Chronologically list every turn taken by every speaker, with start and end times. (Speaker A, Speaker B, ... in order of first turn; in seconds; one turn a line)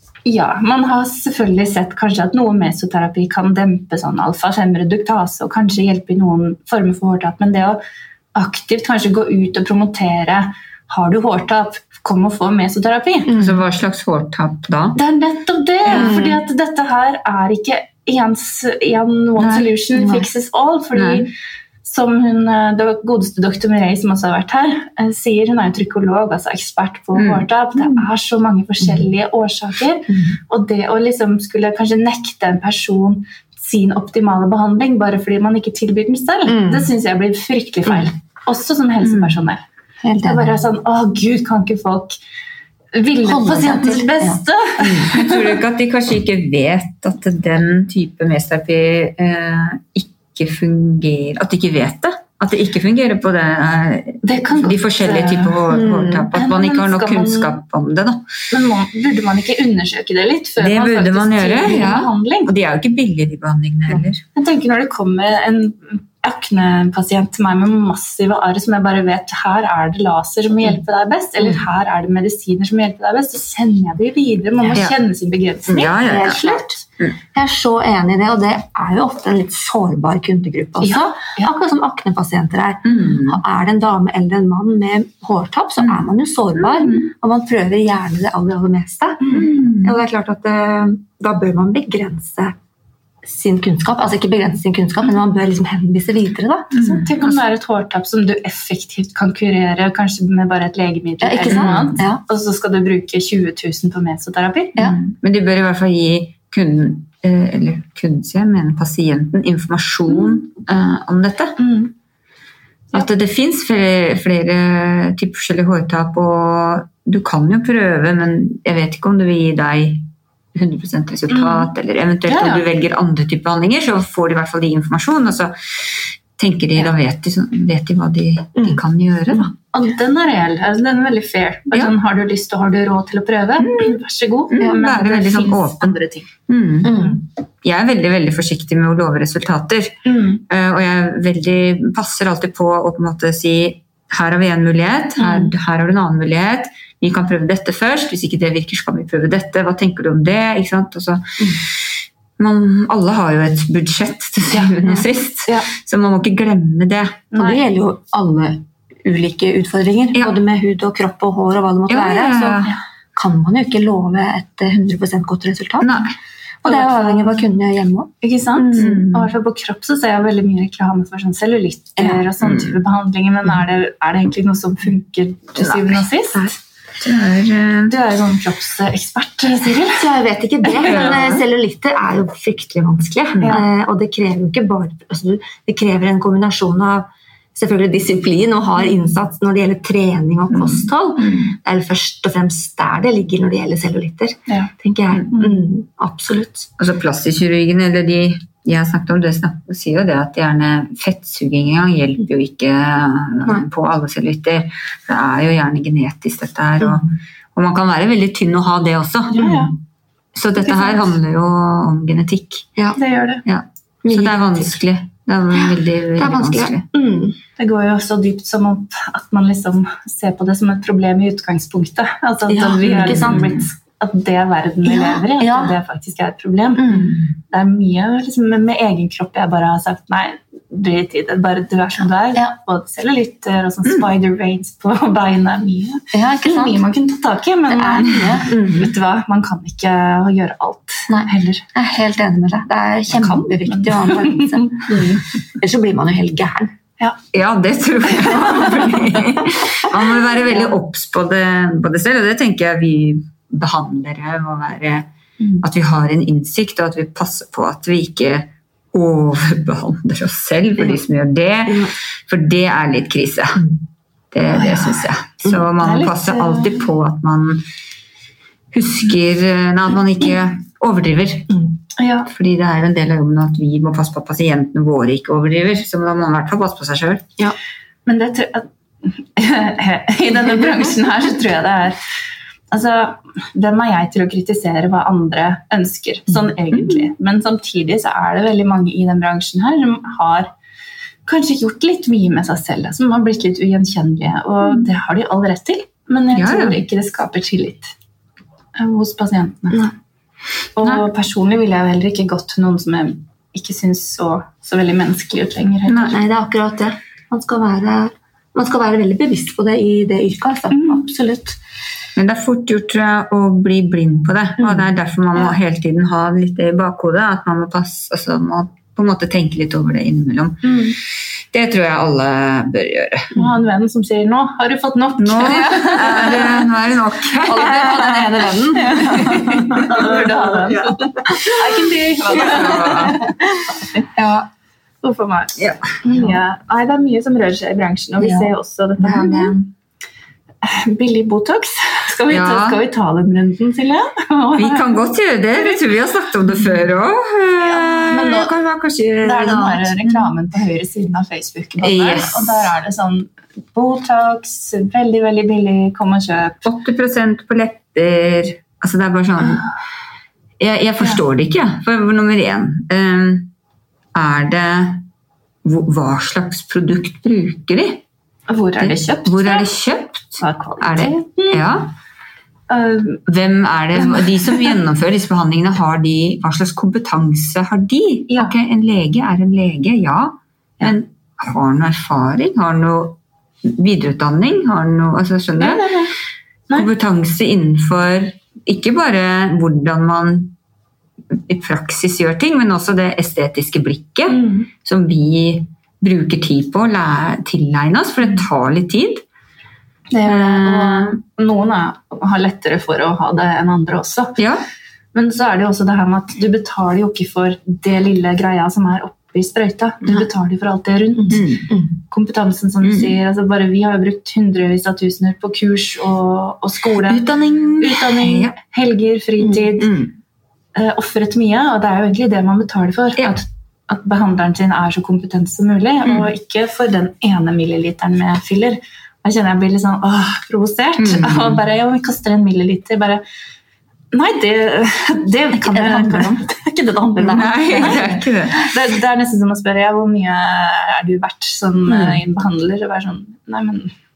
Speaker A: 0.2-7.8
Speaker A: 8.3-13.3
Speaker B: 13.3-13.6
Speaker C: 13.3-15.0
Speaker A: 14.9-21.3
Speaker C: 15.9-16.3
Speaker B: 15.9-16.4
Speaker B: 20.0-20.2
Speaker C: 20.9-21.2
Speaker A: 21.8-39.6
Speaker C: 27.1-28.0
Speaker B: 30.1-30.4
Speaker B: 36.5-36.9
Speaker B: 40.0-40.5
Speaker A: 40.2-42.2
Speaker A: 42.9-45.6
Speaker B: 43.2-44.4
Speaker C: 44.8-58.2
Speaker A: 54.2-55.6
Speaker B: 55.7-56.3
Speaker A: 56.3-57.6
Speaker A: 58.5-62.5
Speaker C: 60.6-64.2
Speaker A: 64.3-76.0
Speaker C: 75.7-77.1
Speaker B: 76.0-76.8
Speaker B: 77.3-92.5
Speaker A: 80.8-81.5
Speaker C: 82.8-83.4
Speaker C: 86.6-87.0
Speaker C: 89.3-89.9
Speaker B: 93.2-96.7
Speaker C: 96.7-97.1
Speaker A: 96.7-104.7
Speaker B: 101.2-102.2
Speaker C: 101.5-102.0
Speaker C: 104.8-111.5
Speaker A: 110.1-110.4
Speaker A: 111.6-111.9
Speaker C: 112.9-125.5
Speaker A: 121.3-121.7
Speaker A: 122.3-122.7
Speaker C: 126.4-129.5
Speaker A: 129.7-136.3
Speaker C: 134.5-151.6
Speaker B: 136.8-137.2
Speaker A: 140.0-140.4
Speaker A: 145.2-145.5
Speaker C: 152.4-157.3
Speaker A: 154.5-155.7
Speaker A: 157.3-157.6
Speaker B: 157.3-166.0
Speaker C: 161.9-162.7
Speaker C: 165.8-166.1
Speaker B: 166.6-169.0
Speaker A: 166.6-167.4
Speaker A: 168.2-176.4
Speaker C: 168.7-169.3
Speaker B: 172.0-172.2
Speaker C: 172.4-172.8
Speaker C: 175.6-176.5
Speaker C: 177.0-177.9
Speaker A: 177.9-180.1
Speaker B: 179.9-196.7
Speaker C: 180.8-181.4
Speaker C: 190.5-190.9
Speaker C: 196.8-209.5
Speaker A: 209.3-209.7
Speaker B: 209.4-209.7
Speaker C: 210.3-212.7
Speaker A: 210.7-211.1
Speaker A: 212.9-213.4
Speaker C: 213.4-216.8
Speaker B: 214.0-214.7
Speaker B: 215.5-217.4
Speaker A: 217.6-241.7
Speaker B: 222.5-223.5
Speaker C: 222.8-223.6
Speaker B: 224.8-225.8
Speaker B: 226.8-227.3
Speaker B: 236.1-236.8
Speaker B: 237.7-238.9
Speaker B: 241.1-246.7
Speaker A: 243.1-245.2
Speaker C: 247.3-255.1
Speaker A: 248.5-248.9
Speaker C: 255.6-263.7
Speaker C: 264.3-267.6
Speaker A: 264.4-266.8
Speaker C: 268.7-271.6
Speaker A: 272.0-272.3
Speaker C: 272.3-277.3
Speaker A: 278.1-282.0
Speaker A: 282.7-290.5
Speaker A: 291.2-297.9
Speaker C: 296.3-296.8
Speaker A: 298.8-299.9
Speaker A: 300.8-306.2
Speaker B: 305.9-311.6
Speaker A: 310.7-311.0
Speaker C: 312.1-320.9
Speaker A: 320.6-320.9
Speaker C: 321.5-323.4
Speaker A: 323.3-326.6
Speaker C: 325.2-331.5
Speaker B: 325.4-326.5
Speaker B: 327.4-330.0
Speaker A: 328.8-334.1
Speaker C: 332.3-333.2
Speaker B: 332.3-333.2
Speaker B: 334.1-334.5
Speaker A: 335.0-339.6
Speaker B: 338.2-338.4
Speaker C: 339.0-339.6
Speaker A: 340.6-345.8
Speaker C: 342.3-342.8
Speaker C: 344.6-350.3
Speaker A: 347.6-348.5
Speaker A: 349.2-356.7
Speaker C: 351.8-352.7
Speaker C: 356.6-359.6
Speaker C: 360.6-363.5
Speaker C: 364.1-365.0
Speaker C: 365.6-368.0
Speaker A: 368.5-369.7
Speaker C: 368.8-371.9
Speaker A: 370.4-371.6
Speaker A: 372.7-373.2
Speaker C: 373.3-385.9
Speaker A: 373.9-374.8
Speaker A: 385.6-386.1
Speaker C: 386.7-390.5
Speaker C: 391.3-399.2
Speaker A: 394.3-394.7
Speaker A: 400.1-404.4
Speaker C: 400.2-401.2
Speaker C: 404.4-404.6
Speaker A: 405.1-417.3
Speaker C: 411.3-411.7
Speaker C: 412.8-413.1
Speaker C: 417.1-418.5
Speaker A: 417.8-419.9
Speaker C: 419.8-420.1
Speaker A: 420.7-433.2
Speaker C: 431.0-431.6
Speaker A: 434.1-443.9
Speaker B: 435.6-436.3
Speaker B: 437.1-438.1
Speaker C: 437.3-438.6
Speaker C: 441.9-442.2